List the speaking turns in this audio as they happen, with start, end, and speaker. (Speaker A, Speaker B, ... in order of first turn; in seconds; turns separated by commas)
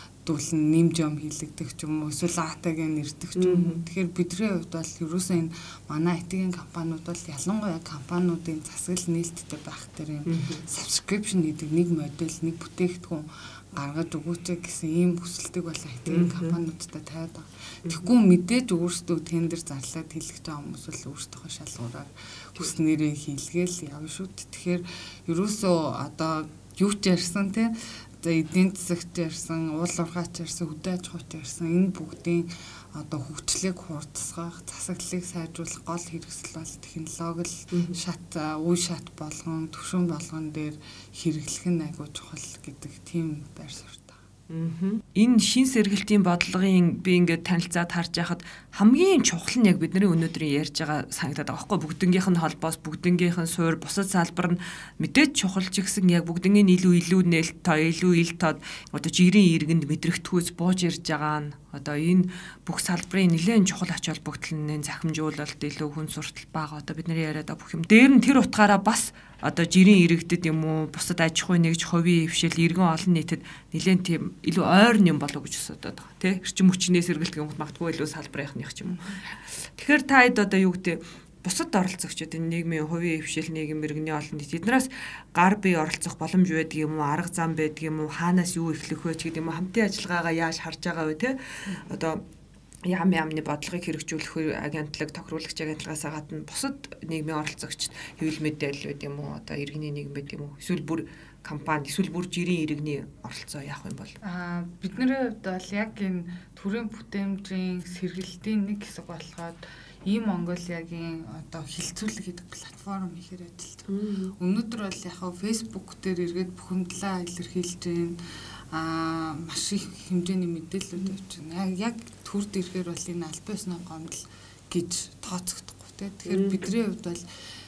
Speaker A: 0.2-44.2, Speaker B: 3.4-3.8, Speaker B: 10.3-10.6, Speaker B: 16.1-16.6, Speaker B: 17.9-18.1, Speaker B: 37.7-38.0, Speaker B: 44.5-92.2, Speaker B: 92.8-104.2, Speaker A: 104.2-113.9, Speaker B: 113.9-114.3, Speaker A: 114.4-118.2, Speaker A: 118.7-127.3, Speaker B: 126.3-126.7